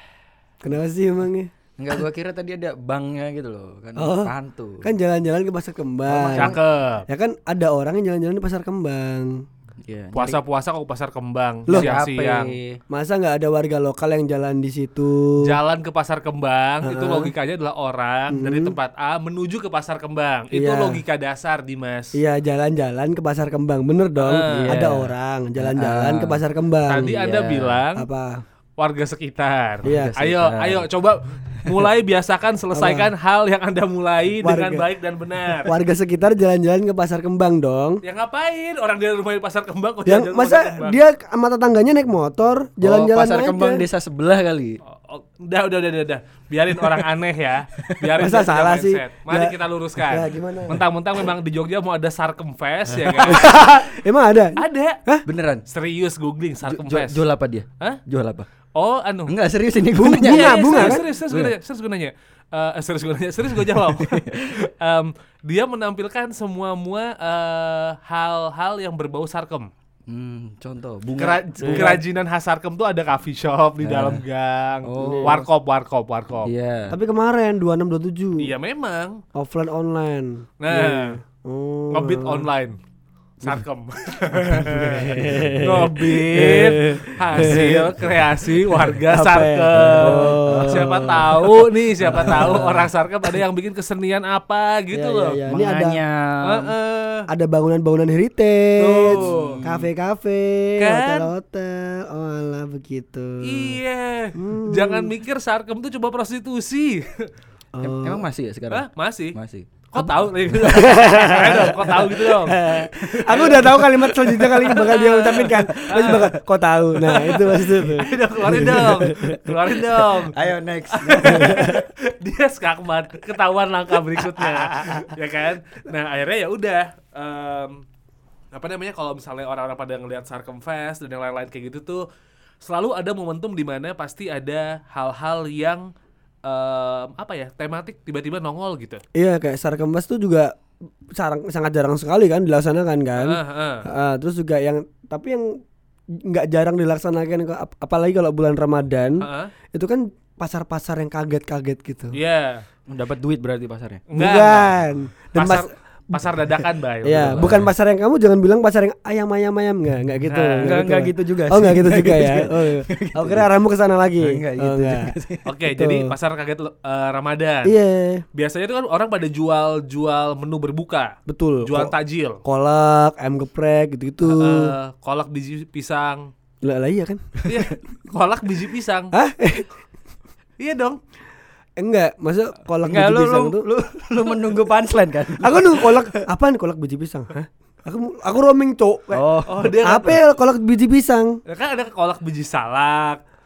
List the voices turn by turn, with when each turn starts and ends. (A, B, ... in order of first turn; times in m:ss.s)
0:00.6-0:02.0 A
0:01.8-0:04.9 B
0:04.0-0:06.6 A
0:06.1-0:06.6 B
0:06.3-0:07.0 C
0:07.1-0:09.4 A
0:09.9-0:10.4 B
0:10.2-0:12.6 C
0:11.7-0:12.0 A
0:11.7-0:12.8 B
0:12.9-0:15.4 A
0:15.4-0:22.2 C
0:16.8-0:17.3 A
0:18.3-0:18.8 A
0:20.5-0:21.0 A
0:22.2-0:27.2 A
0:24.2-0:24.7 C
0:24.4-0:26.4 B
0:26.9-0:28.1 C
0:27.0-0:27.8 B
0:28.0-0:28.4 A
0:28.8-0:35.7 C
0:29.8-0:30.9 B
0:29.8-0:30.1 A
0:32.7-0:33.1 A
0:34.4-0:34.9 A
0:35.6-0:38.0 A
0:38.0-0:41.0 C
0:40.0-0:43.9 A
0:42.8-0:44.8 B
0:44.9-0:53.6 C
0:48.2-0:50.8 A
0:53.0-0:53.4 B
0:53.2-0:55.2 A
0:54.6-0:55.0 C
0:55.3-0:55.6 B
0:55.7-0:57.2 C
0:56.7-0:58.5 B
0:58.8-0:59.3 C
0:59.3-1:01.5 B
1:00.0-1:01.1 A
1:00.1-1:09.7 C
1:03.6-1:04.4 B
1:10.1-1:12.0 B
1:11.2-1:16.5 C
1:11.6-1:12.0 A
1:13.8-1:14.2 B
1:14.8-1:15.4 B
1:15.0-1:15.4 A
1:16.4-1:17.0 B
1:16.9-1:18.5 A
1:18.4-1:19.2 C
1:19.4-1:22.5 A
1:20.6-1:21.1 C
1:21.9-1:22.8 C
1:23.4-1:35.4 C
1:24.7-1:28.1 A
1:25.1-1:25.6 B
1:29.1-1:31.2 A
1:29.8-1:32.7 B
1:32.0-1:32.9 A
1:34.9-1:36.0 A
1:35.5-1:36.7 B
1:36.5-1:37.3 C
1:37.3-1:43.8 A
1:38.8-1:39.9 B
1:38.8-1:39.6 C
1:40.8-1:41.3 C
1:43.4-1:47.3 C
1:44.4-1:45.1 A
1:47.7-1:48.3 A
1:47.8-1:50.9 B
1:48.7-1:49.4 C
1:49.9-1:52.6 C
1:50.6-1:59.3 A
1:53.3-1:53.9 C
1:53.3-1:54.8 B
1:54.6-1:56.3 C
1:55.8-1:56.3 B
1:57.0-1:57.5 B
1:57.1-2:00.3 C
2:00.3-2:01.8 B
2:00.9-2:07.8 C
2:01.2-2:01.7 A
2:04.4-2:05.0 B
2:08.5-2:12.0 C
2:12.6-2:15.9 C
2:16.4-2:19.0 C
2:19.2-2:20.5 A
2:21.1-2:25.6 A
2:23.2-2:23.8 C
2:26.2-2:32.2 A
2:29.2-2:29.5 C
2:32.1-2:32.6 C
2:32.9-2:34.0 B
2:34.1-2:34.7 C
2:34.2-2:36.2 A
2:35.4-2:37.5 C
2:37.0-2:45.2 A
2:37.2-2:37.7 B
2:40.3-2:40.8 C
2:40.6-2:43.5 B
2:44.2-2:45.5 B
2:45.5-2:47.7 C
2:45.7-2:46.1 A
2:47.6-2:48.2 A
2:48.3-2:51.1 C
2:51.3-2:51.9 A
2:51.6-2:52.4 C
2:52.4-2:54.7 A
2:54.3-2:56.3 C
2:56.6-2:57.4 A
2:57.5-2:59.1 C
2:59.1-2:59.7 A
3:00.6-3:01.0 C
3:01.8-3:03.7 A
3:02.8-3:06.1 B
3:05.4-3:09.2 A
3:09.1-3:09.7 B
3:09.5-3:10.2 C
3:09.8-3:11.4 A
3:11.5-3:13.2 C